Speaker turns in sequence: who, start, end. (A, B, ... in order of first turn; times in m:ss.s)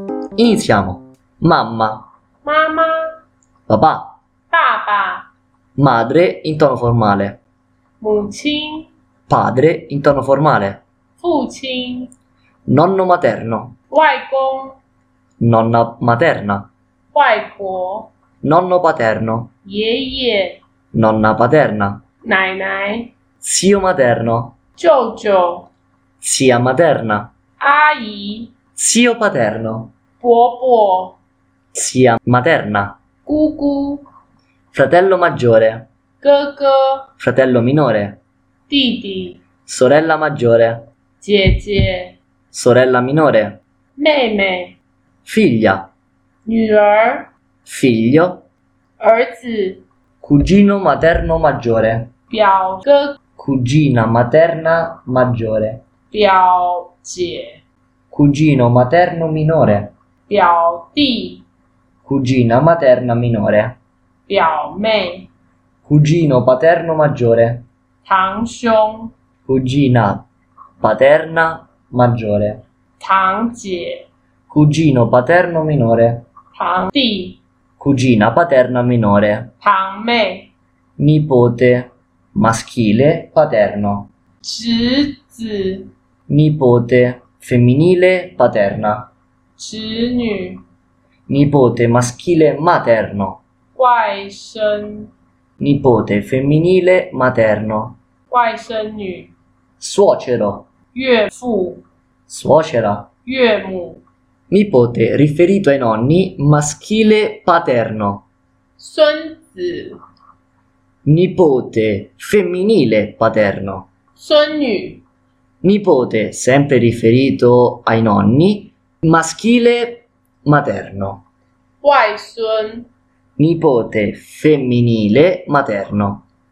0:00.4-0:02.1 A
0:02.4-0:03.2 B
0:03.7-0:04.2 A
0:04.5-0:05.3 B
0:05.8-0:07.4 A
0:08.0-0:08.9 B
0:09.3-0:10.8 A
0:11.2-0:12.1 B
0:12.7-0:13.8 A
0:13.9-0:14.8 B
0:15.4-0:16.7 A
0:17.1-0:18.1 B
0:18.4-0:19.5 A
0:19.6-0:20.6 B
0:20.9-0:22.0 A
0:22.2-0:23.1 B
0:23.4-0:24.6 A
0:24.8-0:25.7 B
0:26.2-0:27.3 A
0:27.6-0:28.5 B
0:28.8-0:29.9 A
0:30.2-0:31.2 B
0:31.7-0:33.0 A
0:33.3-0:34.0 B
0:34.7-0:35.9 A
0:36.2-0:37.1 B
0:37.2-0:38.2 A
0:38.7-0:39.4 B
0:39.6-0:40.9 A
0:41.2-0:42.2 B
0:42.5-0:43.6 A
0:44.0-0:44.8 B
0:45.2-0:45.9 A
0:46.4-0:47.3 B
0:47.6-0:48.5 A
0:49.0-0:49.8 B
0:50.2-0:52.1 A
0:52.3-0:53.2 B
0:53.4-0:55.8 A
0:56.1-0:57.6 B
0:58.1-0:59.9 A
1:00.3-1:01.4 B
1:02.0-1:03.8 A
1:04.3-1:05.3 B
1:05.8-1:07.7 A
1:08.0-1:09.1 B
1:09.5-1:10.3 A
1:10.8-1:12.6 A
1:13.0-1:14.1 B
1:14.5-1:16.3 A
1:16.6-1:17.4 B
1:17.8-1:19.5 A
1:19.6-1:20.5 B
1:21.0-1:24.1 A
1:24.4-1:25.9 B
1:26.3-1:29.1 A
1:29.6-1:30.6 B
1:31.3-1:33.4 A
1:33.8-1:35.1 B
1:35.6-1:38.0 A
1:38.3-1:39.3 B
1:39.8-1:40.7 A
1:40.9-1:41.8 B
1:42.3-1:43.1 A
1:43.2-1:44.0 B
1:44.5-1:48.3 A
1:48.8-1:50.0 B
1:51.0-1:53.9 A
1:54.2-1:55.0 B
1:55.6-2:01.2 A
2:01.8-2:02.9 B
2:03.4-2:06.2 A